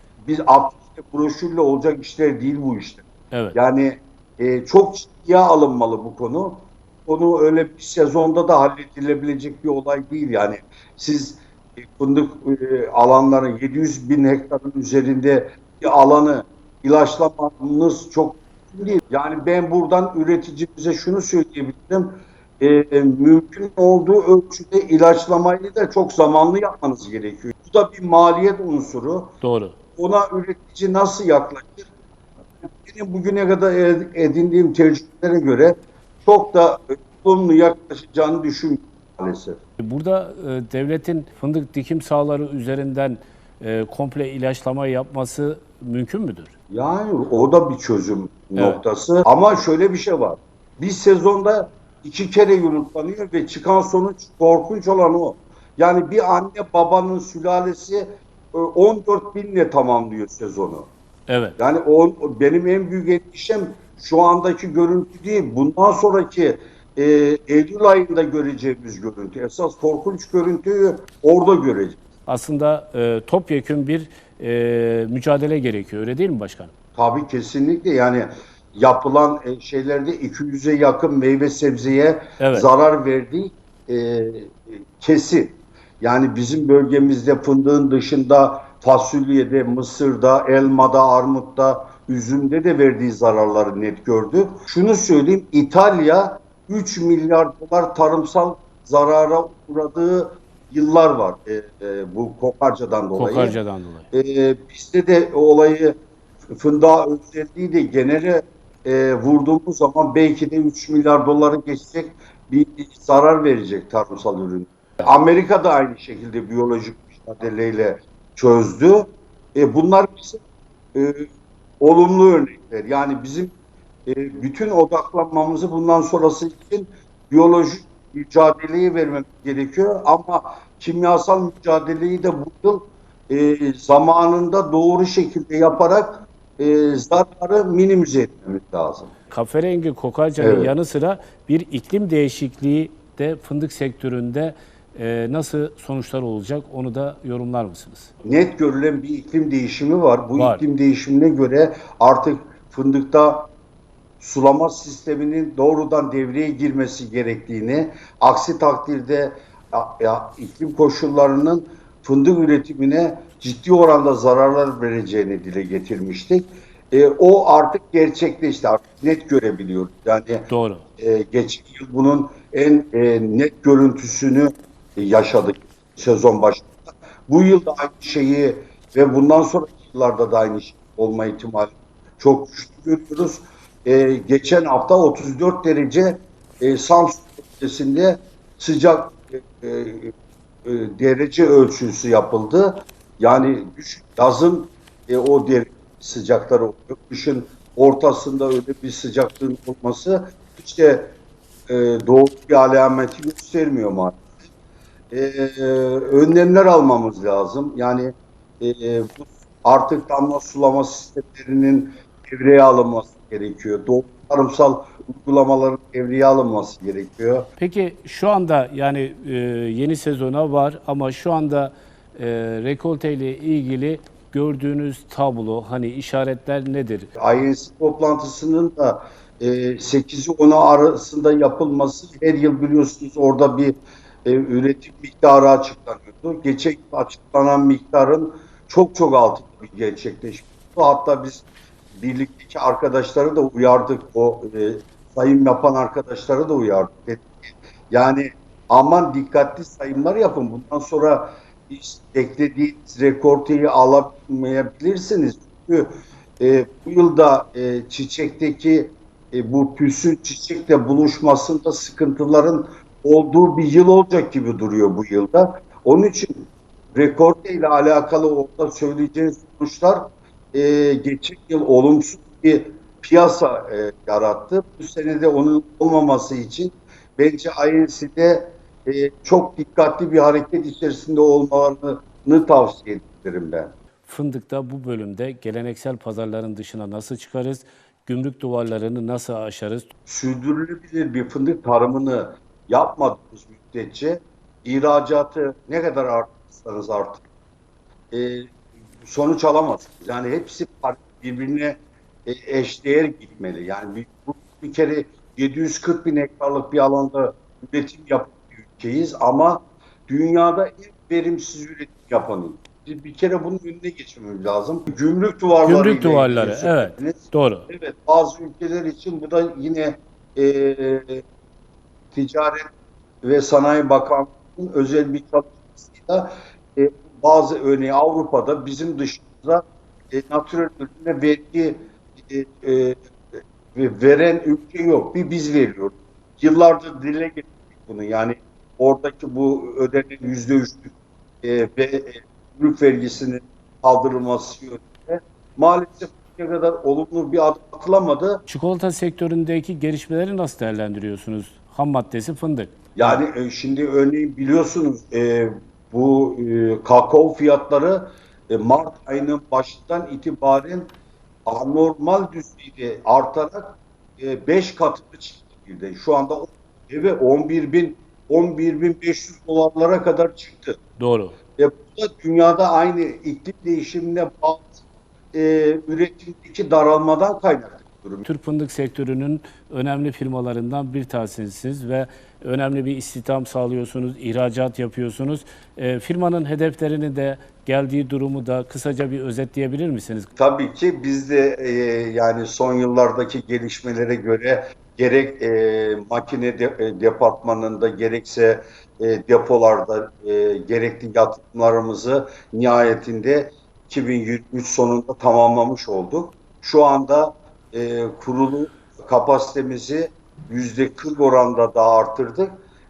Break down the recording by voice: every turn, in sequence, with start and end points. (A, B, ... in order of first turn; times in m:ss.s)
0:00.2-0:29.3 A
0:03.3-0:03.6 B
0:29.4-0:29.8 B
0:30.0-0:31.9 A
0:32.6-0:39.6 A
0:39.8-0:46.5 B
0:46.7-1:00.9 A
0:48.6-0:48.8 B
1:01.3-1:01.6 B
1:01.6-1:12.0 A
1:12.3-1:16.7 B
1:17.0-1:43.6 A
1:22.4-1:22.7 B
1:43.2-1:44.1 B
1:44.1-1:46.0 A
1:46.5-2:00.4 A
2:00.9-2:01.3 A
2:01.8-2:03.5 A
2:04.1-2:19.1 A
2:19.3-2:28.1 B
2:20.4-2:20.7 A
2:28.2-2:33.5 A
2:30.4-2:30.6 B
2:34.2-2:50.5 A
2:50.5-2:50.9 B
2:51.0-3:10.1 A
3:10.6-3:21.2 A
3:21.7-3:24.3 A
3:25.1-3:37.5 A
3:37.6-3:47.1 B
3:47.2-4:15.9 A
4:16.4-4:43.8 A
4:44.1-4:49.9 B
4:50.1-4:57.2 A
4:58.1-4:58.5 A
4:59.0-5:21.2 A
5:15.6-5:17.7 B
5:22.1-5:22.7 A
5:23.2-5:48.4 A
5:48.5-5:52.7 B
5:53.0-6:00.9 A
6:01.5-6:10.8 A
6:11.0-6:11.4 B
6:11.6-6:14.7 A
6:15.3-6:18.3 A
6:18.2-6:30.3 B
6:30.4-6:52.5 A